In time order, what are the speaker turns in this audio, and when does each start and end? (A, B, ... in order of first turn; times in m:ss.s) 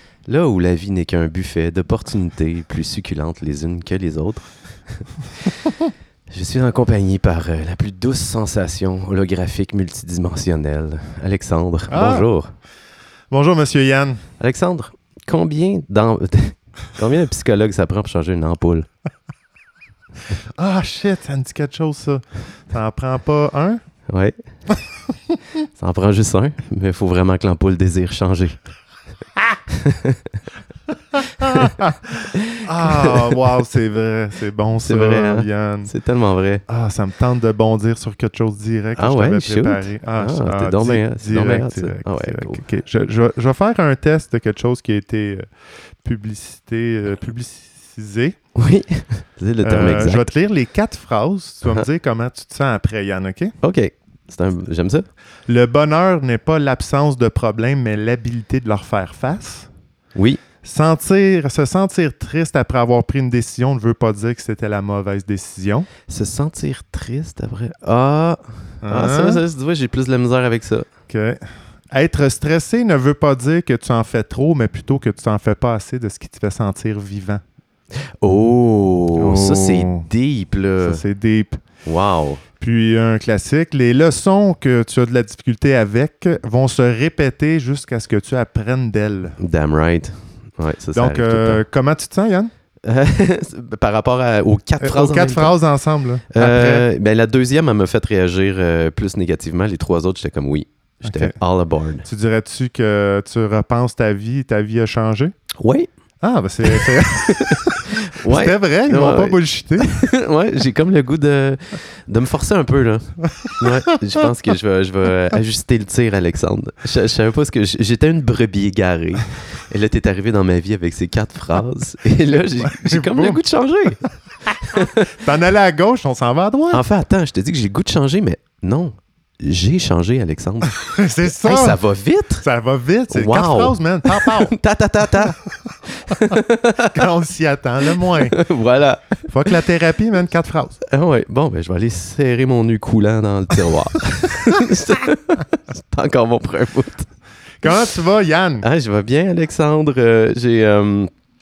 0:00.3-0:05.0 A
0:06.3-0:12.5 A
0:11.9-0:12.3 B
0:13.3-0:14.2 B
0:14.4-0:18.9 A
0:20.6-0:23.8 B
0:24.1-0:24.4 A
0:25.8-0:28.6 A
0:29.7-0:30.2 A
0:31.4-0:32.1 B
0:31.4-0:31.7 A
0:32.3-0:33.4 A
0:32.6-0:35.9 B
0:34.8-0:36.6 A
0:36.7-0:45.5 B
0:39.0-0:42.6 A
0:46.0-0:48.4 B
0:48.6-0:50.3 A
0:49.6-0:53.6 B
0:53.6-0:55.1 A
0:55.5-0:59.7 B
1:00.2-1:00.4 A
1:00.6-1:05.9 B
1:06.1-1:10.9 A
1:08.8-1:09.4 B
1:11.1-1:17.4 B
1:18.2-1:21.0 A
1:19.2-1:20.1 B
1:20.8-1:21.6 B
1:21.8-1:22.4 A
1:22.6-1:29.4 B
1:29.4-1:31.6 A
1:31.0-1:32.5 B
1:32.8-1:35.6 A
1:34.8-1:36.9 B
1:36.3-1:42.1 A
1:41.0-1:41.4 B
1:42.0-1:45.4 B
1:45.6-1:45.9 A
1:46.2-1:50.0 B
1:46.7-2:04.0 A
2:02.6-2:03.4 B
2:04.6-2:06.8 B
2:04.6-2:05.2 A
2:06.7-2:12.4 A
2:10.8-2:11.8 B
2:12.4-2:14.5 B
2:13.1-2:17.0 A
2:15.1-2:16.4 B
2:16.9-2:18.4 B
2:18.1-2:19.2 A
2:19.2-2:20.8 B
2:20.9-2:27.1 A
2:27.6-2:28.6 B
2:28.6-2:31.1 A